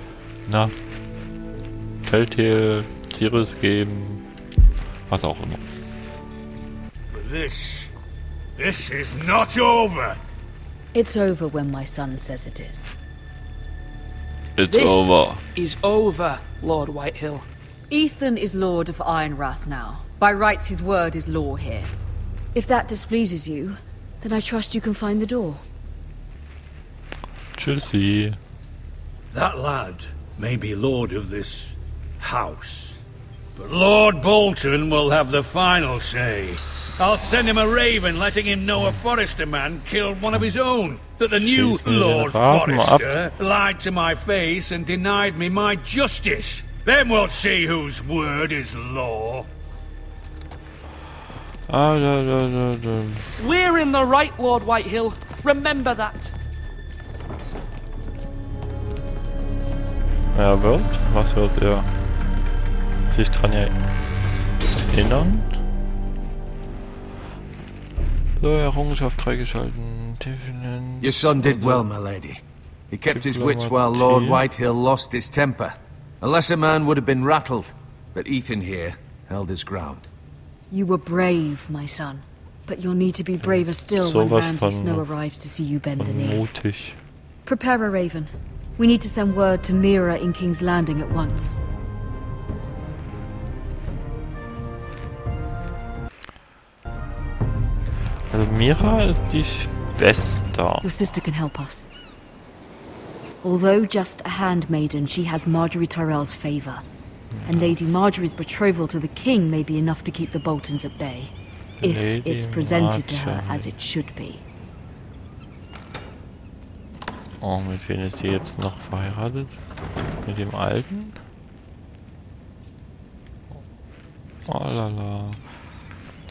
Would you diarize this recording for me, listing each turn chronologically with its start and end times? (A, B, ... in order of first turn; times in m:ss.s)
0:00.4-0:00.7 A
0:02.0-0:04.2 A
0:05.1-0:05.6 A
0:07.1-0:07.9 B
0:08.6-0:10.2 B
0:10.9-0:12.9 C
0:14.6-0:15.4 A
0:14.7-0:17.4 D
0:17.9-0:21.9 C
0:22.5-0:25.6 C
0:27.6-0:28.4 A
0:29.3-0:33.0 B
0:33.6-0:49.5 B
0:41.3-0:43.2 A
0:51.7-0:53.3 A
0:53.4-0:56.3 D
1:00.3-1:01.9 A
1:03.1-1:03.8 A
1:04.9-1:05.6 A
1:08.4-1:11.9 A
1:11.0-1:20.1 E
1:13.0-1:14.5 A
1:20.7-1:26.4 C
1:23.4-1:25.2 A
1:26.0-1:27.0 A
1:27.4-1:31.6 C
1:38.3-1:40.9 A
1:40.8-1:41.9 C
1:43.4-1:46.8 C
1:47.3-1:47.9 A
1:47.4-1:54.4 C
1:51.8-1:53.7 A
1:57.4-1:59.6 A
2:00.2-2:01.2 A
2:04.4-2:05.4 A